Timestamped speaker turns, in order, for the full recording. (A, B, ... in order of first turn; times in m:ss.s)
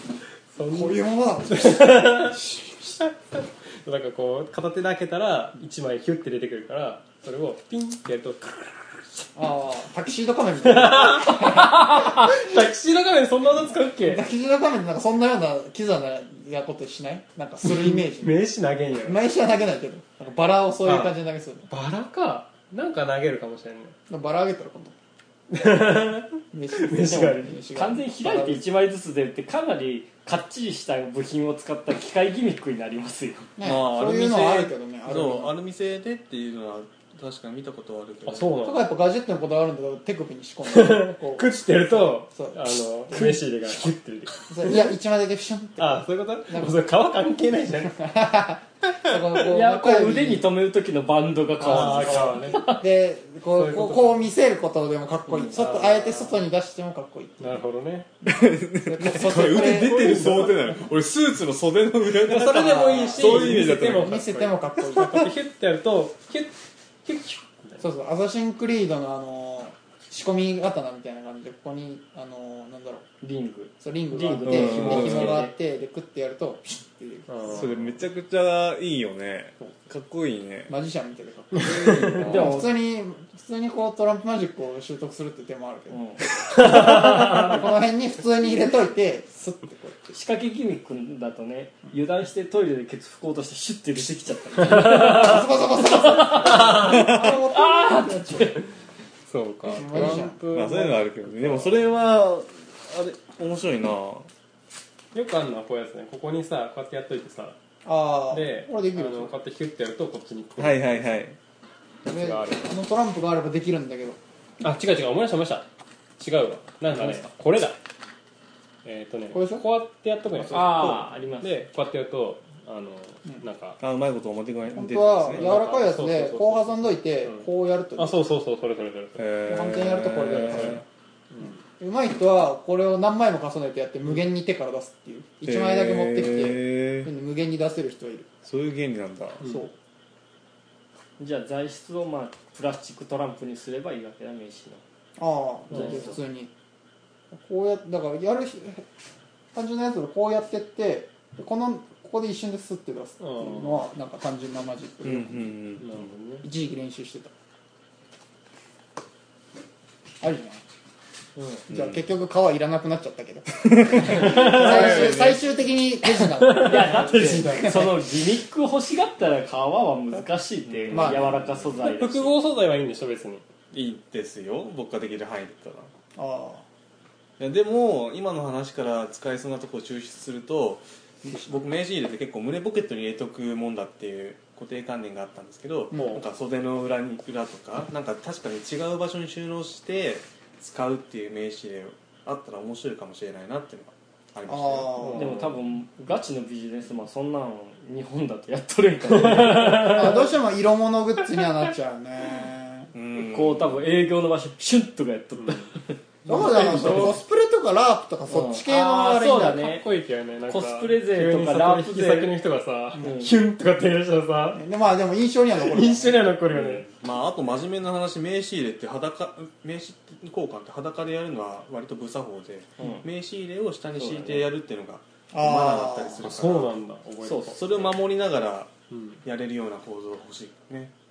0:00.5-0:02.4 A
0:00.7-0:03.0 B
0:03.0-0:09.2 A
0:09.4-0:12.3 B
0:10.6-0:14.2 A
0:14.0-0:18.4 B
0:17.6-0:19.2 A
0:19.0-0:21.7 B
0:20.8-0:21.1 A
0:21.7-0:24.0 A
0:24.1-0:24.9 B
0:25.5-0:27.6 A
0:26.5-0:28.6 B
0:27.7-0:33.5 C
0:33.6-0:35.5 B
0:33.6-0:38.6 D
0:38.2-0:38.9 A
0:38.6-0:43.9 B
0:40.7-0:44.9 A
0:44.5-0:46.8 B
0:45.8-0:48.0 A
0:47.8-0:50.5 B
0:49.4-0:52.8 C
0:51.6-0:57.6 B
0:51.6-0:52.7 A
0:53.5-0:54.2 A
0:55.3-0:55.7 C
0:55.5-0:56.3 A
0:57.4-0:58.1 A
0:58.2-1:00.7 B
0:58.2-1:04.2 D
0:59.2-1:00.8 A
1:02.1-1:06.5 A
1:02.4-1:05.3 B
1:07.0-1:07.8 A
1:07.8-1:13.0 B
1:13.2-1:15.5 C
1:13.8-1:17.6 B
1:14.5-1:15.4 D
1:17.3-1:18.0 A
1:17.4-1:20.7 D
1:20.7-1:26.0 B
1:21.5-1:22.5 A
1:21.6-1:22.6 D
1:22.2-1:22.7 C
1:25.9-1:26.2 C
1:26.5-1:27.6 A
1:26.5-1:30.2 B
1:30.1-1:38.6 C
1:34.7-1:38.7 B
1:36.8-1:37.4 D
1:39.3-1:41.8 A
1:39.7-1:40.4 B
1:39.7-1:44.3 D
1:45.1-1:47.6 A
1:47.8-1:49.3 B
1:48.3-1:51.2 A
1:50.6-1:51.4 D
1:52.0-1:54.2 B
1:52.1-1:52.7 A
1:54.6-1:55.6 A
1:56.2-1:57.8 A
1:58.8-2:03.8 A
1:59.3-1:59.6 B
2:00.5-2:01.5 C
2:03.8-2:05.5 D
2:04.7-2:08.2 B
2:05.3-2:09.3 A
2:09.2-2:10.8 D
2:09.5-2:10.8 B
2:10.2-2:11.6 A
2:11.4-2:18.3 B
2:15.4-2:17.1 D
2:18.4-2:19.4 D
2:19.4-2:19.7 B
2:21.2-2:24.8 C
2:25.2-2:26.5 B
2:25.7-2:26.1 C
2:25.7-2:26.0 A
2:27.3-2:28.8 B
2:29.5-2:35.5 B
2:33.2-2:33.9 A
2:35.0-2:35.9 D
2:35.8-2:36.4 A
2:36.4-2:37.3 B
2:40.2-2:40.6 B
2:41.7-2:47.9 B
2:41.7-2:42.0 D
2:43.6-2:45.4 D
2:44.0-2:45.4 A
2:46.2-2:47.9 A
2:46.5-2:52.3 C
2:50.6-2:51.8 D
2:50.9-2:51.4 B
2:51.8-2:53.4 A
2:53.7-2:55.9 D
2:56.2-2:56.6 B
2:57.4-3:15.1 D
3:01.2-3:01.6 B
3:05.9-3:06.2 B
3:05.9-3:06.2 A
3:14.4-3:15.4 B
3:15.0-3:15.6 A
3:15.1-3:20.3 C
3:19.1-3:20.2 A
3:19.7-3:22.9 B
3:22.9-3:23.8 D
3:23.1-3:27.1 C
3:25.4-3:25.7 A
3:26.2-3:29.6 B
3:26.3-3:27.2 A
3:28.3-3:29.8 C
3:29.3-3:34.6 A
3:30.5-3:32.3 C
3:33.0-3:33.2 B
3:33.0-3:33.3 C
3:34.5-3:36.2 B
3:35.6-3:36.9 A
3:36.5-3:46.8 D
3:42.8-3:43.0 C
3:43.9-3:44.5 C
3:45.3-3:46.3 B
3:46.2-3:47.9 A
3:47.2-3:47.9 C
3:47.5-3:48.7 D
3:48.9-3:49.2 A
3:49.2-3:50.9 D